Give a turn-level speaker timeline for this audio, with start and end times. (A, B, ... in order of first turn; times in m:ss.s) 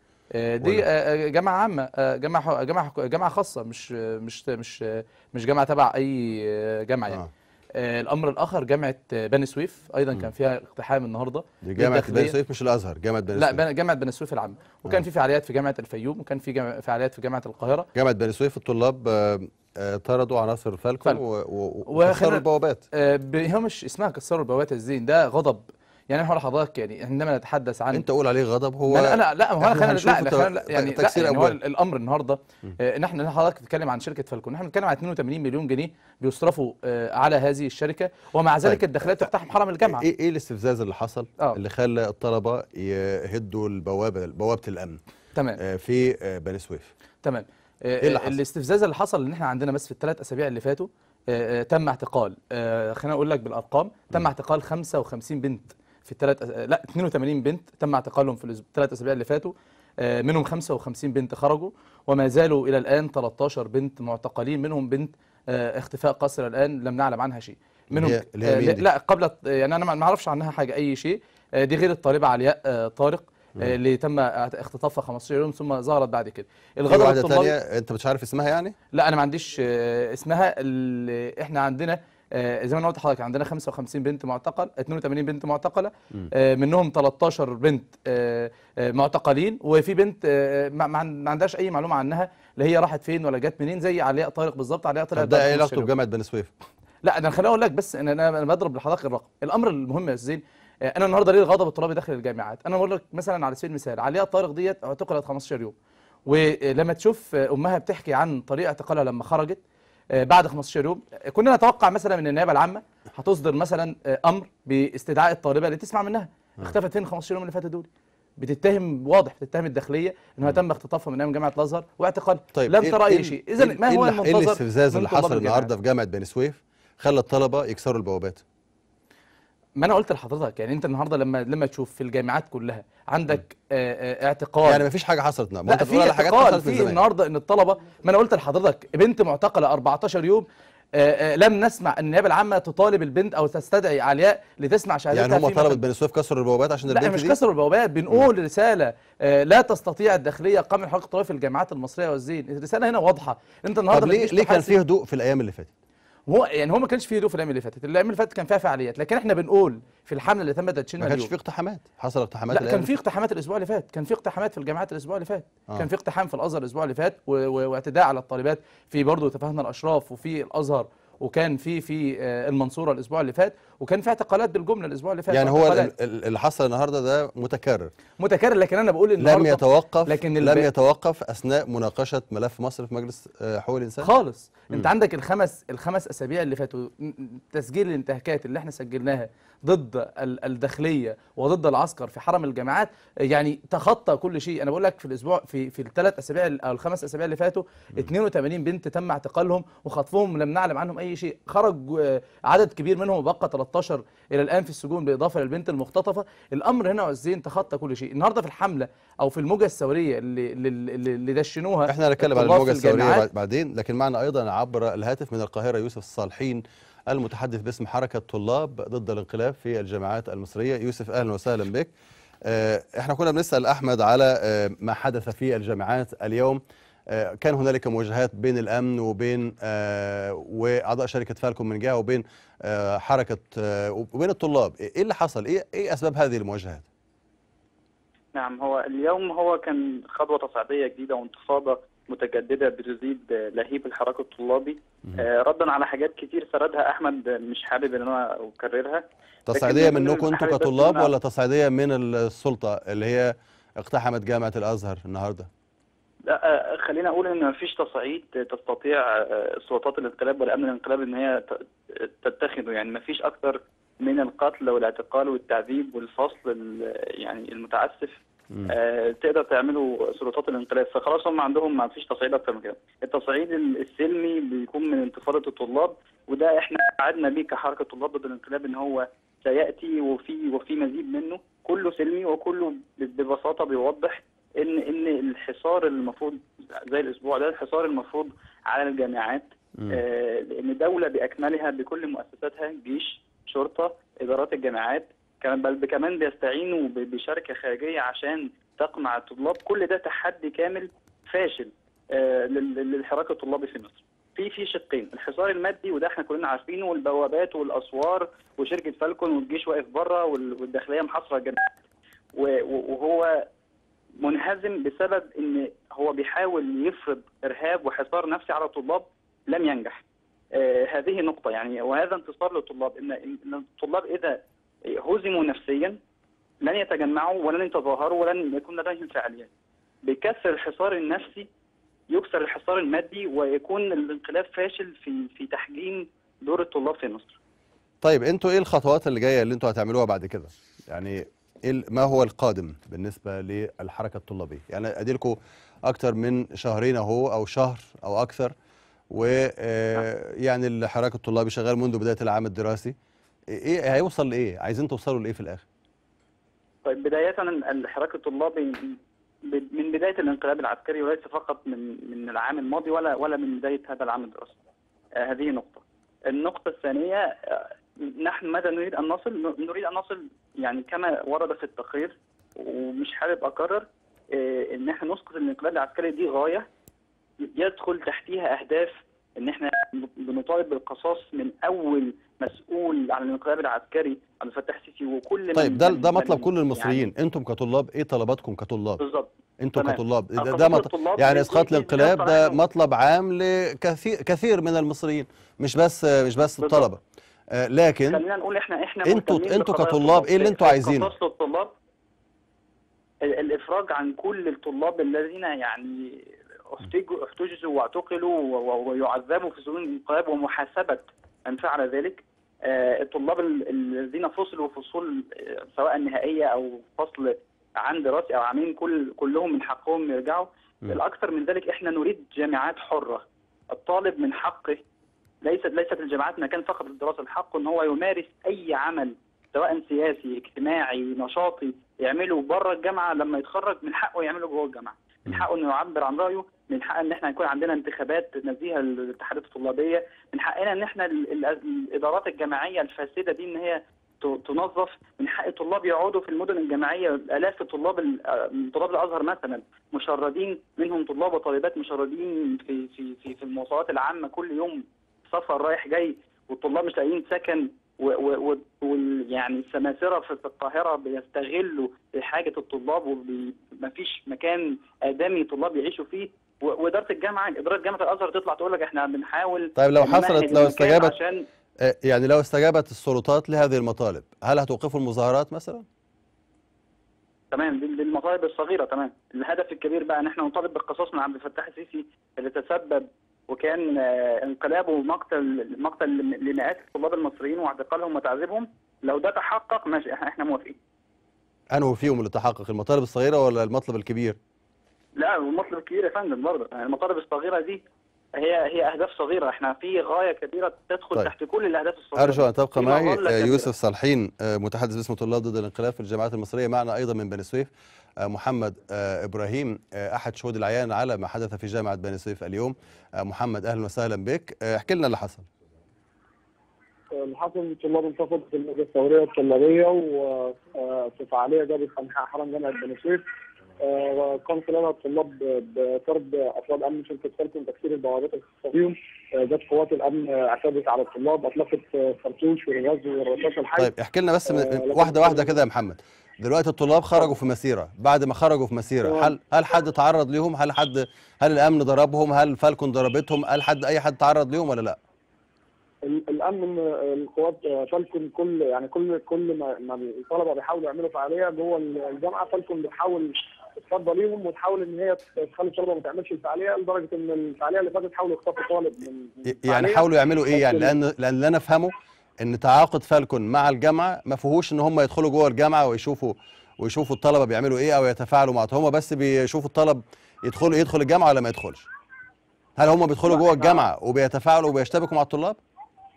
0:00.3-0:12.4 A
0:11.6-0:13.6 B
0:13.3-0:17.9 A
0:17.9-0:22.8 B
0:21.9-0:28.0 A
0:27.9-0:31.6 B
0:28.9-0:40.0 A
0:39.8-0:45.0 B
0:45.4-0:45.6 A
0:45.6-0:46.9 B
0:47.2-1:17.6 A
0:48.0-0:48.4 B
1:07.9-1:08.9 B
1:16.9-1:18.8 B
1:18.9-1:35.9 A
1:35.2-1:36.5 B
1:37.0-1:45.8 A
1:46.3-1:49.6 A
1:50.1-2:05.7 A
2:02.5-2:08.4 B
2:09.8-2:14.9 A
2:14.6-2:17.0 B
2:15.7-2:25.8 A
2:25.1-2:27.4 B
2:26.9-2:34.8 A
2:33.9-2:35.7 B
2:36.3-2:41.3 A
2:41.0-2:42.9 B
2:42.5-2:55.9 A
2:55.3-2:57.9 B
2:58.2-3:00.7 A
2:59.2-3:04.1 B
3:04.0-3:33.3 A
3:31.9-3:41.9 B
3:42.4-3:56.9 B
3:58.3-4:11.1 C
4:09.5-4:15.5 B
4:16.3-5:11.7 C
5:12.4-5:13.5 C
5:14.2-5:26.0 C
5:26.6-5:29.5 C
5:30.0-5:31.5 C
5:32.1-5:37.4 C
5:38.0-5:48.5 B
5:49.1-5:53.0 B
5:53.5-5:55.6 B
5:56.8-6:04.6 C
6:05.2-6:16.7 C
6:17.4-6:27.1 C
6:25.5-6:29.0 B
6:29.0-6:32.6 C
6:29.6-6:37.0 B
6:36.6-6:36.9 C
6:37.5-6:38.2 B
6:38.1-6:41.7 C
6:39.0-6:41.1 B
6:43.2-7:04.8 C
7:05.4-7:51.5 C
7:49.8-7:51.1 B
7:51.8-7:55.8 B
7:57.5-8:10.8 C
8:11.7-8:14.4 B
8:15.2-8:17.8 C
8:18.4-8:23.7 C
8:22.2-8:35.5 B
8:37.1-8:43.2 D
8:43.8-8:53.9 D
8:53.8-9:05.0 B
8:54.5-8:55.6 D
8:59.0-8:59.3 D
9:06.0-9:20.9 D
9:19.5-9:31.9 B
9:32.8-9:35.6 B
9:33.3-9:33.8 D